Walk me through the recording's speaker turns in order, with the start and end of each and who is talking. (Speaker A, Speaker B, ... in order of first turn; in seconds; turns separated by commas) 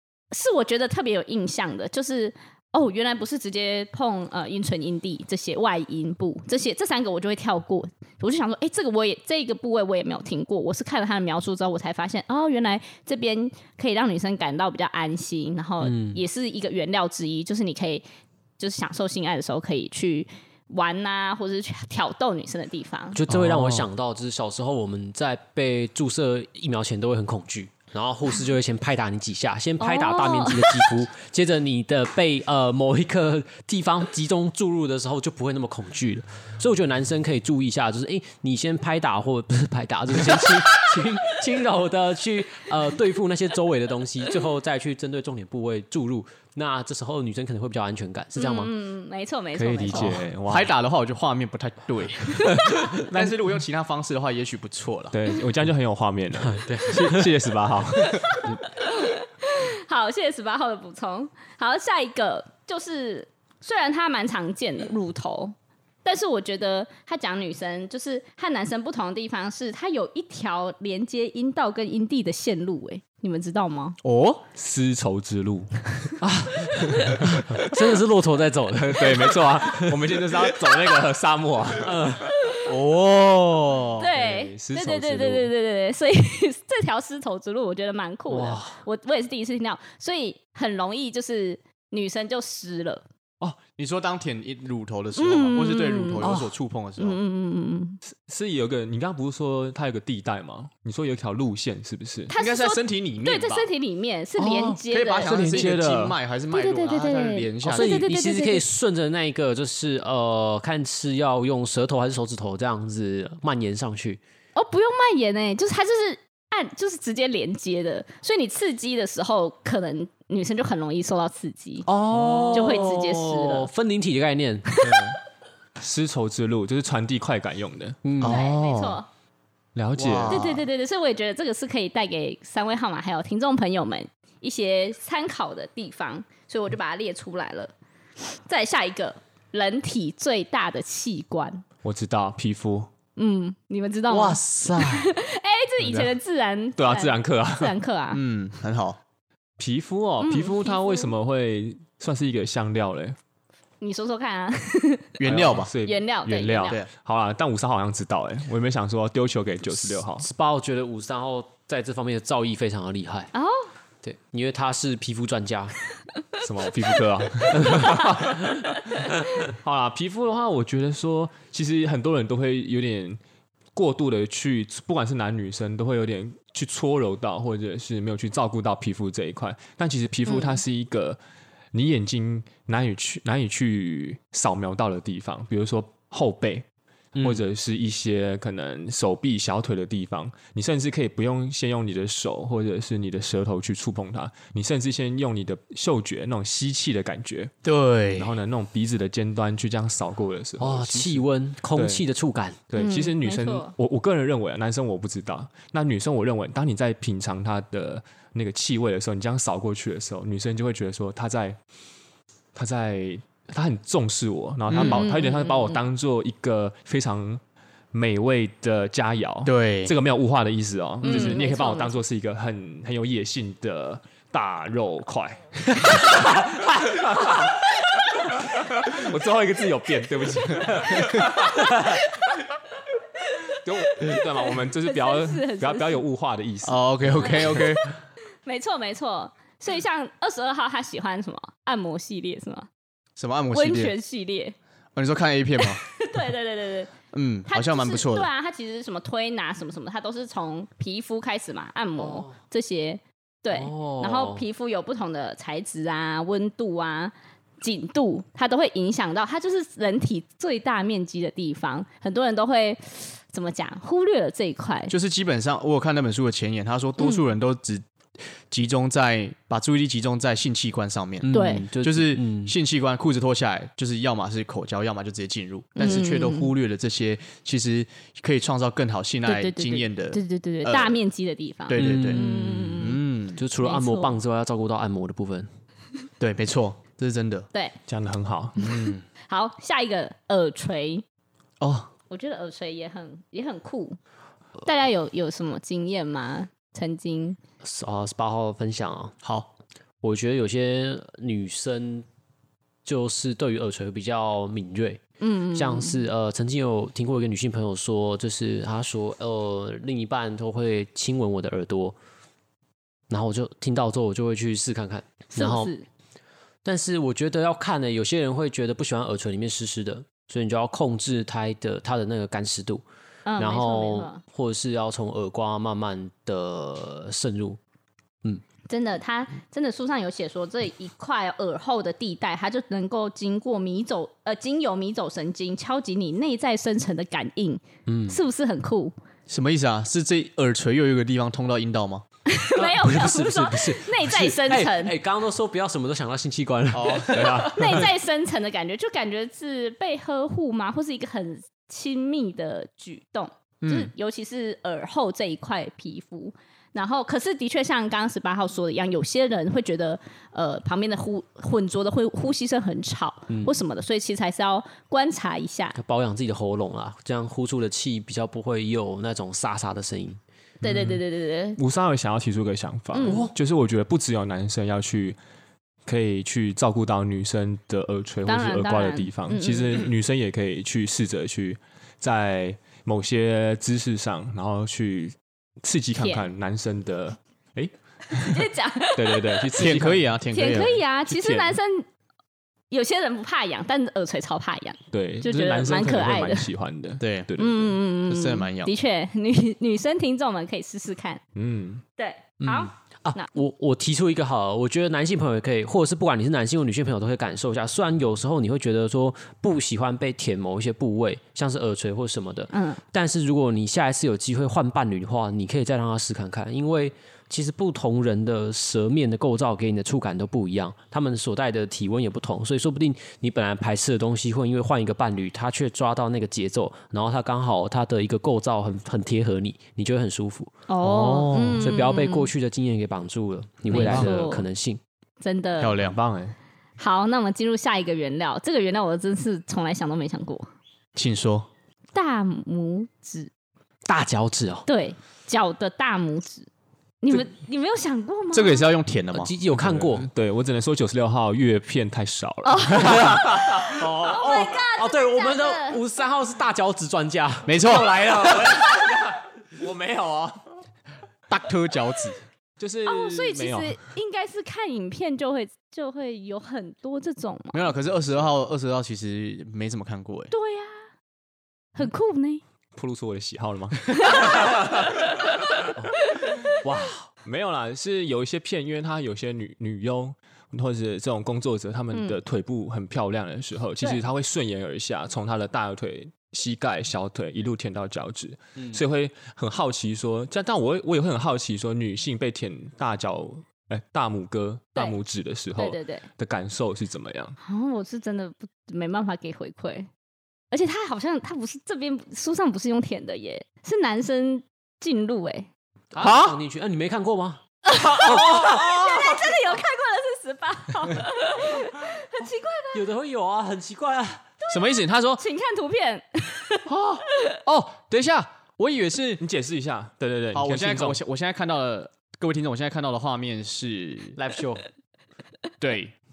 Speaker A: 0.3-18.0, Speaker B: 15.8-16.2, Speaker A: 18.6-23.2, Speaker B: 23.1-48.7, Speaker A: 29.8-30.9, Speaker A: 48.4-50.1, Speaker C: 49.5-50.7, Speaker D: 50.0-55.1, Speaker C: 52.5-53.4, Speaker C: 55.1-58.5, Speaker B: 56.4-57.3, Speaker A: 58.1-74.0, Speaker D: 74.0-74.5, Speaker C: 74.5-77.8, Speaker B: 76.2-80.0, Speaker C: 78.8-82.2, Speaker B: 81.8-82.3, Speaker D: 82.6-84.1, Speaker A: 84.0-93.0, Speaker C: 84.1-85.5, Speaker B: 88.3-88.8, Speaker D: 93.7-97.2, Speaker A: 95.2-96.3, Speaker B: 96.2-96.5, Speaker A: 97.0-98.0, Speaker C: 98.0-102.3, Speaker A: 102.3-105.6, Speaker D: 102.3-103.7, Speaker C: 104.4-106.2, Speaker D: 104.9-108.0, Speaker A: 106.5-108.6, Speaker B: 107.6-114.2, Speaker A: 114.5-121.9, Speaker B: 121.8-124.7, Speaker A: 122.5-123.7, Speaker A: 124.7-125.0, Speaker C: 124.8-125.2, Speaker C: 125.8-128.0, Speaker B: 128.0-128.4, Speaker D: 128.2-129.0, Speaker A: 128.2-129.1, Speaker C: 129.7-130.6, Speaker D: 129.9-130.6, Speaker A: 130.3-141.6, Speaker C: 141.8-142.9, Speaker A: 143.2-148.2, Speaker D: 144.5-144.8, Speaker C: 146.8-147.8, Speaker D: 148.1-149.0, Speaker C: 149.6-153.2, Speaker A: 150.2-151.1, Speaker A: 153.8-155.1, Speaker D: 155.2-155.7, Speaker C: 155.2-160.2, Speaker A: 155.8-156.8, Speaker B: 159.8-163.3, Speaker A: 163.3-163.7, Speaker B: 164.0-165.8, Speaker C: 166.4-173.2, Speaker B: 167.5-167.9, Speaker C: 173.7-181.2, Speaker A: 180.3-180.6, Speaker C: 181.7-186.7, Speaker B: 187.1-187.4, Speaker C: 187.2-197.5, Speaker D: 197.6-198.4, Speaker C: 198.1-202.0, Speaker B: 200.6-202.6, Speaker C: 202.7-211.6, Speaker A: 202.8-203.7, Speaker C: 212.5-217.4, Speaker D: 214.7-215.0, Speaker A: 214.7-215.8, Speaker C: 217.9-232.0, Speaker D: 219.4-219.9, Speaker A: 221.0-221.9, Speaker A: 231.4-232.3, Speaker A: 233.3-236.0, Speaker C: 233.6-237.7, Speaker D: 236.6-238.0, Speaker A: 237.3-237.8, Speaker A: 238.4-242.7, Speaker D: 243.2-243.9, Speaker A: 243.5-244.6, Speaker D: 244.9-245.9, Speaker A: 245.8-246.9, Speaker D: 247.1-248.3, Speaker A: 247.5-264.9, Speaker B: 252.0-252.3, Speaker B: 253.5-254.4, Speaker D: 264.9-281.0, Speaker B: 271.2-272.6, Speaker A: 271.3-271.7, Speaker A: 275.8-276.5, Speaker A: 279.2-283.0, Speaker D: 281.7-283.4, Speaker B: 281.7-285.5, Speaker A: 283.6-284.2, Speaker D: 286.2-287.5, Speaker C: 287.9-288.6, Speaker D: 288.6-289.0, Speaker A: 289.3-291.0, Speaker D: 291.6-291.9, Speaker A: 292.1-294.0, Speaker A: 294.6-297.4, Speaker B: 297.6-299.1, Speaker D: 299.2-299.5, Speaker B: 300.0-302.1, Speaker B: 302.8-305.0, Speaker A: 305.2-306.0, Speaker B: 305.5-312.0, Speaker B: 313.1-315.7, Speaker A: 315.3-315.9, Speaker B: 316.6-322.8, Speaker A: 323.2-324.2, Speaker B: 323.4-327.6, Speaker A: 328.7-338.9, Speaker B: 337.9-338.2, Speaker D: 339.3-342.0, Speaker A: 342.3-344.9, Speaker B: 342.5-347.9, Speaker D: 346.7-347.4, Speaker C: 347.1-347.9, Speaker A: 347.4-365.8, Speaker D: 353.6-353.9, Speaker B: 363.3-363.6, Speaker B: 365.7-370.2, Speaker C: 370.6-371.0, Speaker A: 370.6-371.6, Speaker C: 371.6-375.2, Speaker A: 372.9-373.2, Speaker B: 373.0-373.3, Speaker C: 375.9-390.1, Speaker A: 378.2-379.9, Speaker A: 385.9-386.3, Speaker A: 388.1-389.6, Speaker D: 389.6-390.8, Speaker A: 390.3-391.9, Speaker C: 391.1-391.6, Speaker A: 392.7-396.5, Speaker C: 394.9-397.6, Speaker D: 397.0-397.3, Speaker A: 397.4-401.2, Speaker D: 398.0-398.7, Speaker C: 401.4-401.8, Speaker A: 402.0-403.3, Speaker B: 402.4-434.8, Speaker A: 412.5-412.8, Speaker A: 430.7-432.3, Speaker C: 431.0-431.4, Speaker A: 433.7-434.4, Speaker A: 435.2-435.8, Speaker D: 435.6-436.0, Speaker C: 435.8-436.4, Speaker A: 436.8-440.5, Speaker D: 440.9-441.5, Speaker A: 441.9-443.3, Speaker B: 443.9-444.6, Speaker A: 444.6-446.5, Speaker A: 447.0-448.7, Speaker D: 448.3-449.3, Speaker B: 449.1-450.1, Speaker C: 449.5-453.8, Speaker A: 452.4-453.2, Speaker B: 453.0-457.6, Speaker A: 453.8-455.8, Speaker D: 457.4-458.4, Speaker C: 457.6-460.5, Speaker D: 461.3-462.2, Speaker C: 462.6-463.8, Speaker A: 462.9-467.7, Speaker D: 467.5-470.3, Speaker A: 470.3-470.9, Speaker A: 471.7-472.4, Speaker C: 472.8-475.3, Speaker A: 473.9-474.5, Speaker B: 476.6-477.1, Speaker C: 477.2-497.4, Speaker A: 481.9-482.2, Speaker A: 495.6-496.1, Speaker A: 497.4-499.9, Speaker A: 500.5-505.5, Speaker B: 505.9-507.4, Speaker D: 506.0-506.4, Speaker A: 507.6-512.9, Speaker B: 507.9-508.6, Speaker B: 512.7-514.3, Speaker D: 514.5-515.2, Speaker A: 515.2-516.6, Speaker D: 516.7-519.2, Speaker C: 519.2-521.0, Speaker D: 520.3-524.2, Speaker B: 524.1-524.6, Speaker D: 525.6-525.9